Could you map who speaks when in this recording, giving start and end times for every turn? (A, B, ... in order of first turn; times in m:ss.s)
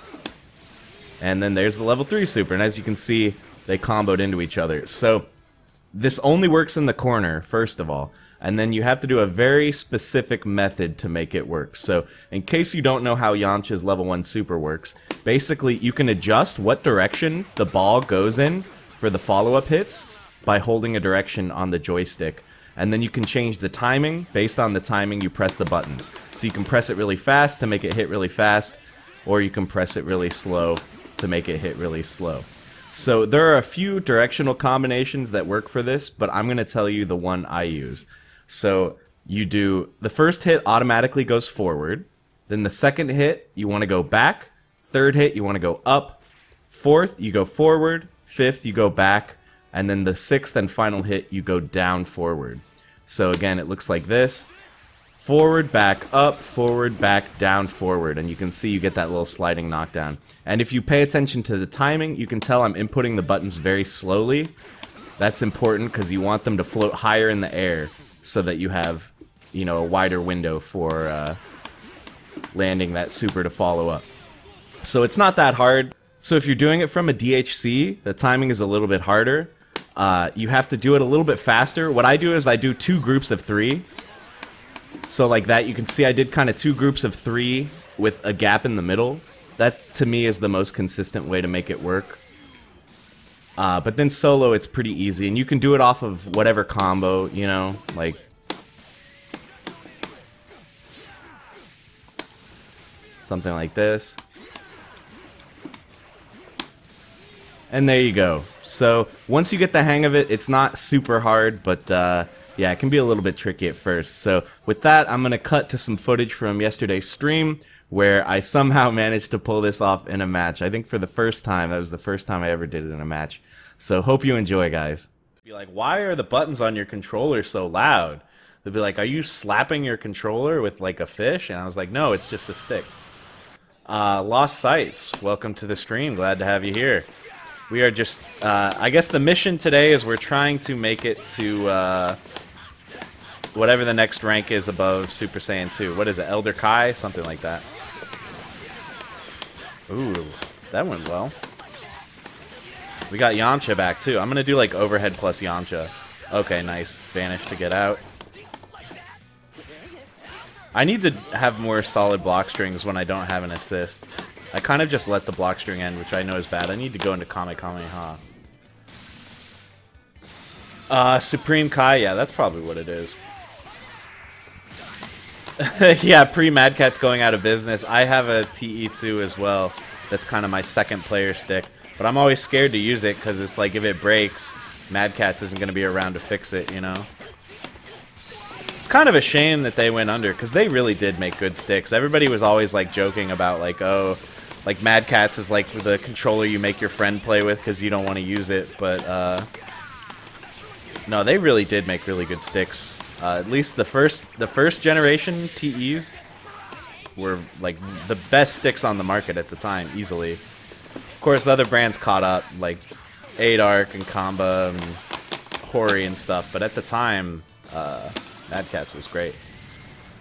0:01.2-0:05.3 A
0:05.9-0:54.5 A
0:55.2-1:04.6 A
1:05.2-1:11.4 A
1:12.5-1:14.0 A
1:14.8-1:23.9 A
1:25.1-1:32.2 A
1:33.6-1:38.2 A
1:43.2-1:44.2 A
1:47.7-2:13.0 A
2:13.9-2:17.1 A
2:17.7-2:22.2 A
2:23.5-2:27.7 A
2:29.9-2:31.3 A
2:33.1-2:38.0 A
2:40.7-2:48.2 A
2:50.9-2:53.2 A
2:55.6-3:07.1 A
3:08.8-3:19.5 A
3:21.1-3:26.1 A
3:27.2-3:30.4 A
3:31.2-3:32.9 A
3:33.4-3:35.0 A
3:35.6-3:39.4 A